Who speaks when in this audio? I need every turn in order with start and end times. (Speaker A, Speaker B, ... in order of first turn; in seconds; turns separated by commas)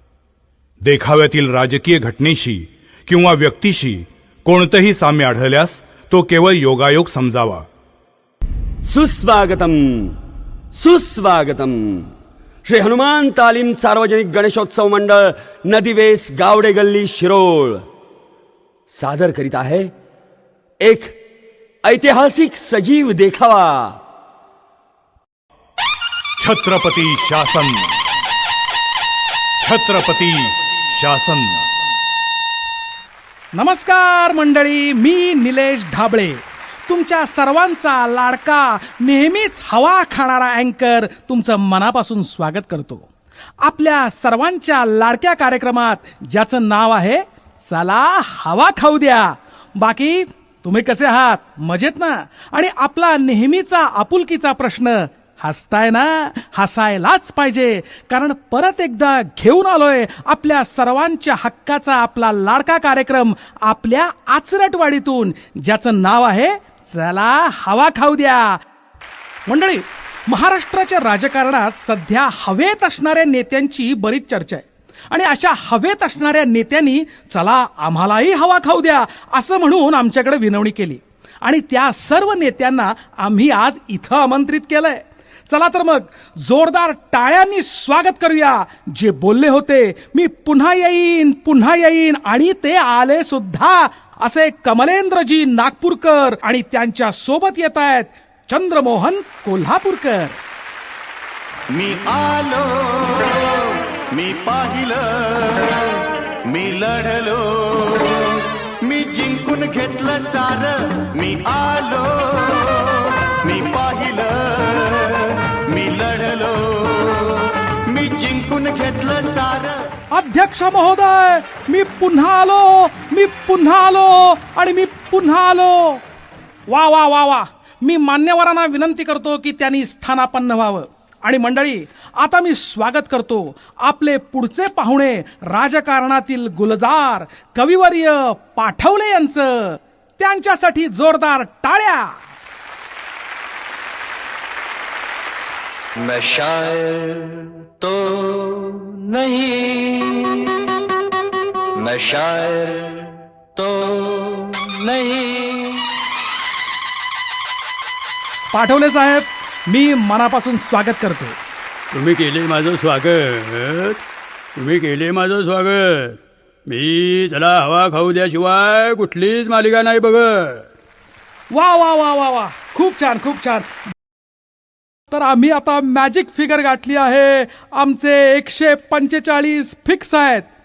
Speaker A: 0.8-7.7, Speaker B: 8.8-10.2, Speaker B: 10.7-12.1, Speaker B: 12.7-17.9, Speaker B: 18.9-19.9, Speaker B: 20.8-21.2, Speaker B: 21.8-24.0, Speaker A: 26.4-27.9, Speaker A: 29.6-31.6, Speaker C: 33.5-43.1, Speaker C: 43.6-68.6, Speaker C: 69.5-100.4, Speaker D: 101.7-103.6, Speaker D: 104.1-105.9, Speaker D: 106.5-119.8, Speaker C: 120.1-126.0, Speaker C: 126.7-142.2, Speaker E: 146.0-150.5, Speaker E: 151.8-155.9, Speaker C: 158.5-161.4, Speaker F: 161.9-164.0, Speaker F: 164.6-170.7, Speaker C: 171.5-173.7, Speaker C: 175.1-180.5